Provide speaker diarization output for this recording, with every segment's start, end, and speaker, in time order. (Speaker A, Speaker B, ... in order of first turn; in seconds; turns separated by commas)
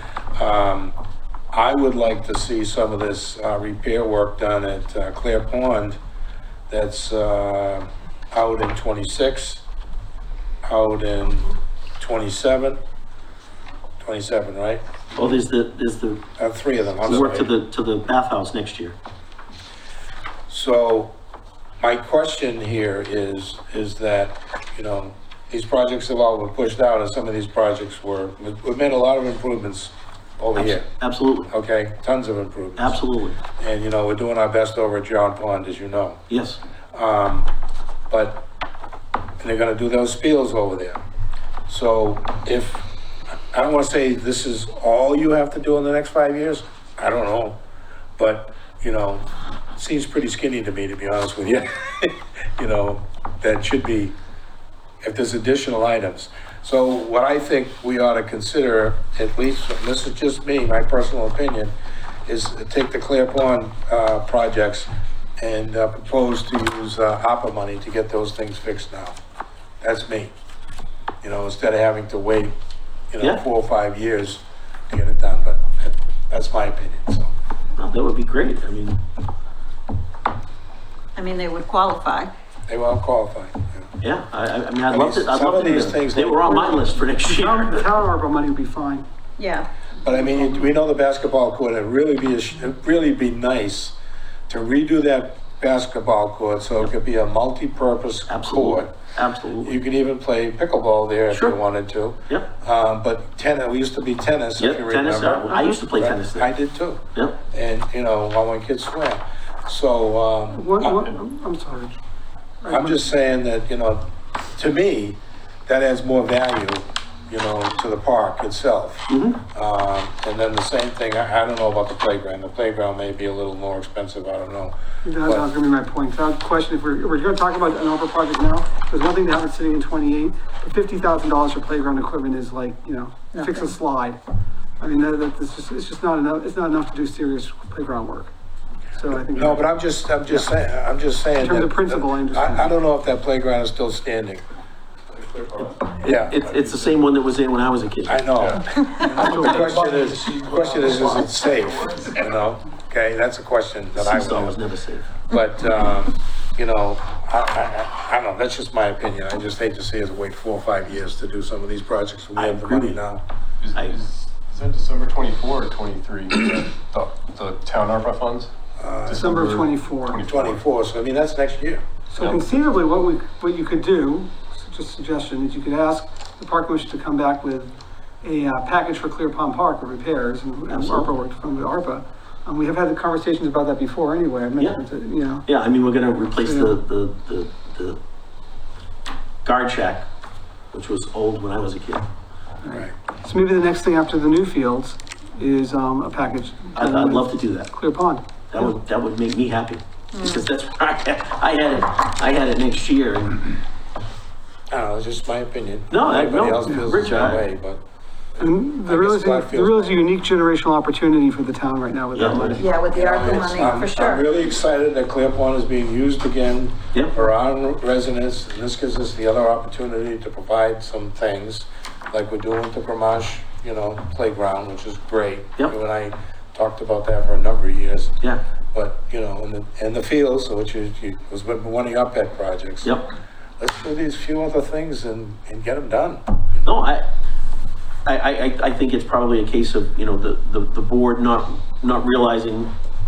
Speaker A: 0.3-0.9, Speaker A: 1.5-6.0, Speaker A: 6.7-9.6, Speaker A: 10.7-12.8, Speaker A: 14.0-14.8, Speaker B: 15.1-16.2, Speaker A: 16.4-17.5, Speaker B: 17.0-18.9, Speaker A: 20.5-21.1, Speaker A: 21.8-30.8, Speaker B: 30.5-31.5, Speaker A: 31.5-33.0, Speaker B: 32.8-33.4, Speaker A: 33.5-36.2, Speaker B: 36.3-36.6, Speaker A: 36.9-37.5, Speaker A: 38.1-38.5, Speaker A: 39.4-41.0, Speaker A: 41.7-42.9, Speaker A: 43.5-47.6, Speaker A: 48.2-49.2, Speaker A: 49.8-54.2, Speaker A: 55.0-61.7, Speaker A: 62.2-69.2, Speaker A: 69.8-70.3, Speaker A: 71.2-72.5, Speaker A: 73.1-77.3, Speaker B: 77.8-79.0, Speaker C: 81.2-82.3, Speaker A: 82.7-83.9, Speaker B: 84.0-87.9, Speaker A: 84.9-86.7, Speaker D: 86.5-89.0, Speaker C: 89.4-89.7, Speaker A: 90.0-94.0, Speaker D: 90.1-90.7, Speaker A: 94.5-98.9, Speaker B: 98.3-99.8, Speaker A: 99.6-111.0, Speaker B: 101.3-101.6, Speaker B: 104.6-106.5, Speaker D: 110.5-112.0, Speaker D: 112.6-113.0, Speaker A: 112.7-125.5, Speaker B: 119.1-119.4, Speaker D: 125.0-134.2, Speaker C: 133.3-133.7, Speaker D: 134.8-138.3, Speaker D: 138.9-139.7, Speaker A: 139.3-144.4, Speaker D: 141.4-142.7, Speaker E: 145.1-147.1, Speaker B: 146.0-148.3, Speaker A: 146.0-146.3, Speaker A: 148.1-154.6, Speaker E: 148.3-148.6, Speaker D: 149.0-151.2, Speaker E: 149.2-149.8, Speaker E: 150.5-151.1, Speaker B: 153.9-155.1, Speaker A: 155.3-163.2, Speaker B: 162.3-163.0, Speaker E: 163.6-168.5, Speaker A: 168.8-169.3, Speaker E: 169.1-170.6, Speaker D: 169.1-170.2, Speaker A: 170.1-171.8, Speaker D: 172.1-185.4, Speaker E: 172.2-172.5, Speaker B: 180.7-181.1, Speaker B: 184.6-184.8, Speaker B: 185.4-188.0, Speaker D: 186.4-186.8, Speaker B: 189.4-190.1, Speaker B: 190.7-192.1, Speaker D: 192.6-198.7, Speaker B: 196.7-197.7, Speaker B: 198.5-203.5, Speaker C: 200.1-200.4, Speaker A: 204.7-207.8, Speaker B: 205.9-207.5, Speaker A: 208.4-210.1, Speaker D: 208.4-212.8, Speaker B: 212.1-212.6, Speaker C: 212.6-214.2, Speaker A: 212.8-228.2, Speaker A: 228.7-233.0, Speaker B: 232.8-233.1, Speaker A: 233.6-236.7, Speaker B: 236.6-237.1, Speaker B: 238.1-242.7